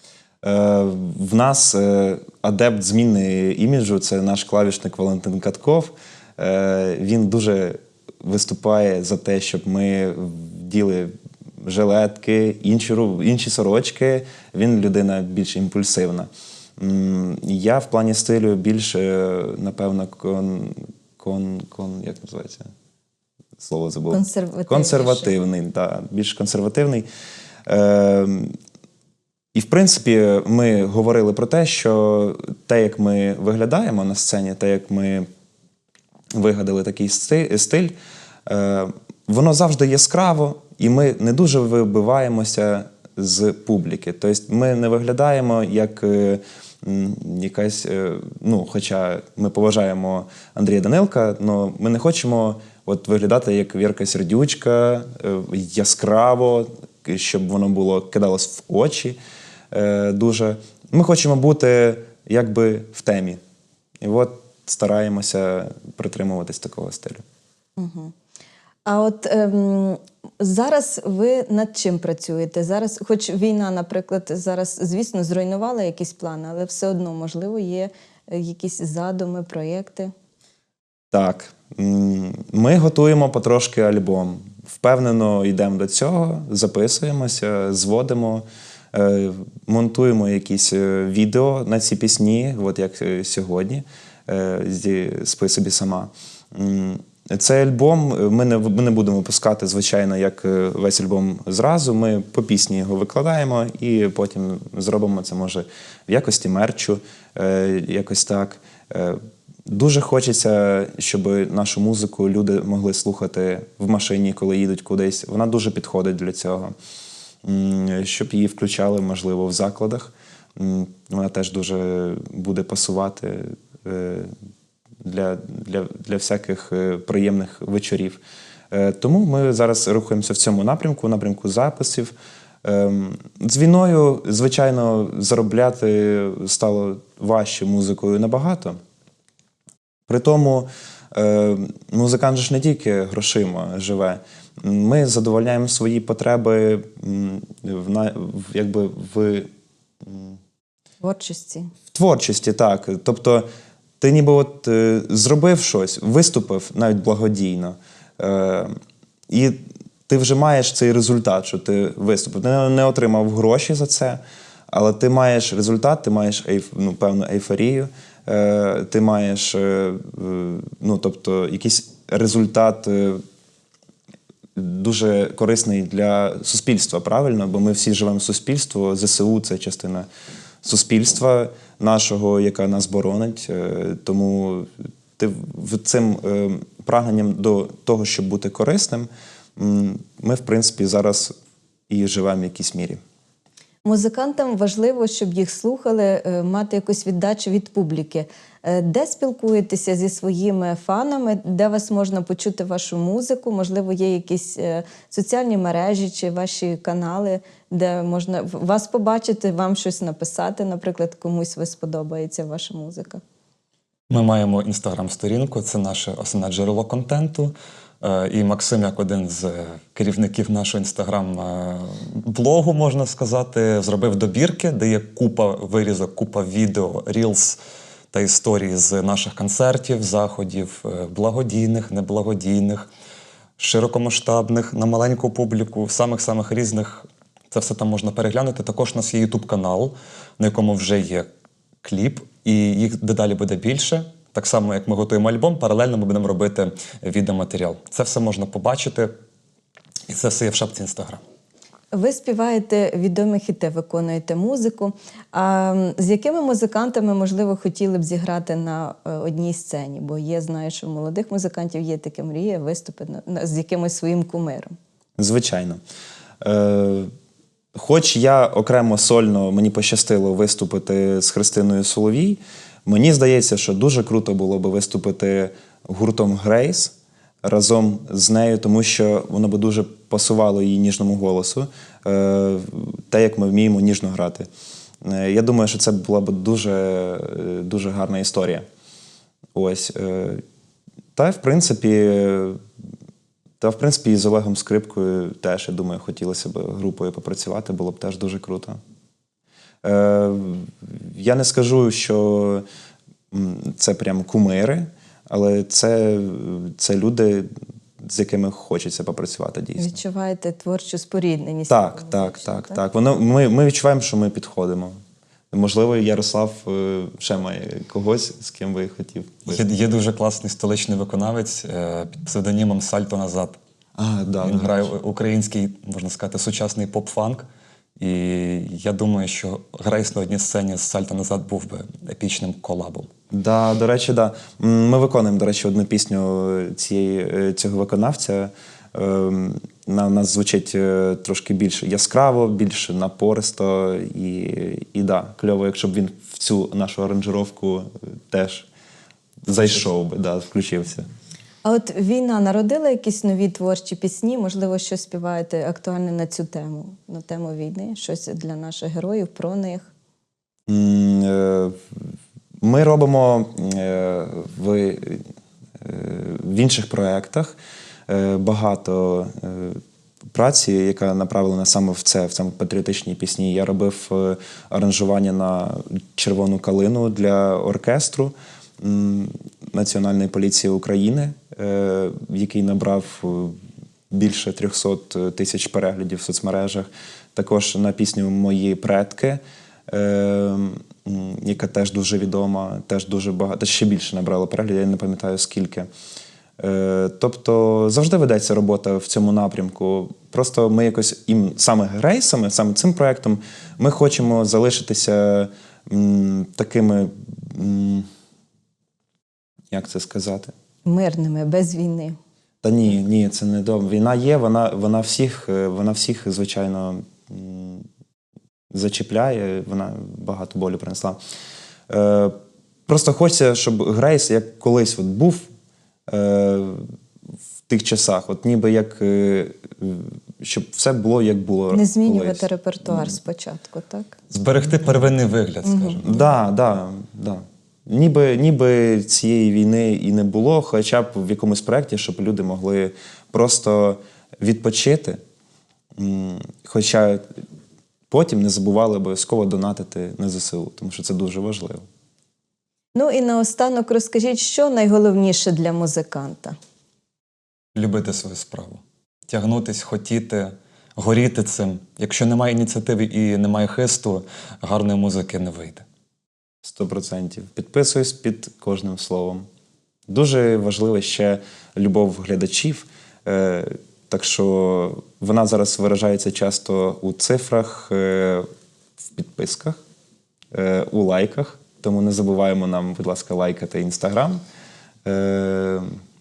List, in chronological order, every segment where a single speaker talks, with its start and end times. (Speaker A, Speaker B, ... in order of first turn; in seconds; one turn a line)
Speaker A: 0.4-22.7
Speaker A: 23.6-27.1
Speaker B: 24.1-25.3
Speaker A: 27.7-28.5
Speaker A: 29.5-35.3
Speaker A: 36.3-37.9
Speaker A: 38.5-59.2
Speaker A: 59.7-63.4
Speaker A: 64.0-67.2
Speaker B: 67.8-68.1
Speaker B: 68.8-80.1
Speaker A: 81.1-116.7
Speaker A: 117.4-124.3
Speaker A: 125.0-132.1
Speaker A: 132.6-138.8
Speaker A: 140.1-149.5
Speaker A: 150.0-150.4
Speaker B: 151.0-151.7
Speaker A: 151.9-153.4
Speaker A: 154.0-158.8
Speaker A: 159.3-173.2
Speaker A: 174.5-180.1
Speaker A: 180.6-191.3
Speaker A: 191.9-193.0
Speaker B: 193.8-213.2
Speaker C: 214.1-227.6
Speaker C: 228.1-232.9
Speaker C: 233.6-241.3
Speaker C: 241.8-249.1
Speaker C: 250.1-251.2
Speaker B: 251.9-264.8
Speaker A: 265.2-265.8
Speaker A: 266.4-267.1
Speaker A: 267.7-284.5
Speaker A: 285.0-288.6
Speaker A: 289.5-290.4
Speaker A: 291.1-292.6
Speaker A: 293.6-298.8
Speaker A: 299.8-302.6
Speaker A: 303.3-310.0
Speaker B: 309.8-312.8
Speaker A: 311.7-315.0
Speaker A: 315.5-319.6
Speaker C: 319.5-323.6
Speaker A: 324.0-324.9
Speaker C: 324.4-327.4
Speaker C: 328.0-333.1
Speaker A: 333.3-348.7
Speaker A: 349.4-351.1
Speaker B: 351.6-359.9
Speaker A: 360.7-365.2
Speaker A: 365.8-367.5
Speaker A: 368.1-383.6
Speaker A: 384.1-395.9
Speaker A: 396.6-408.1
Speaker A: 409.7-410.5
Speaker B: 410.8-412.2
Speaker A: 412.6-417.9
Speaker A: 418.7-421.2
Speaker A: 421.9-422.4
Speaker A: 422.9-425.5
Speaker A: 426.1-426.9
Speaker A: 427.7-432.5
Speaker B: 431.7-434.1
Speaker C: 434.3-436.2
Speaker B: 435.6-436.0
Speaker A: 436.0-445.2
Speaker A: 445.9-447.2
Speaker A: 448.1-451.8
Speaker B: 452.9-456.6
Speaker C: 457.7-465.8
Speaker A: 466.6-469.4
Speaker A: 470.1-478.5
Speaker A: 479.0-479.8
Speaker A: 480.5-484.4
Speaker A: 485.0-485.9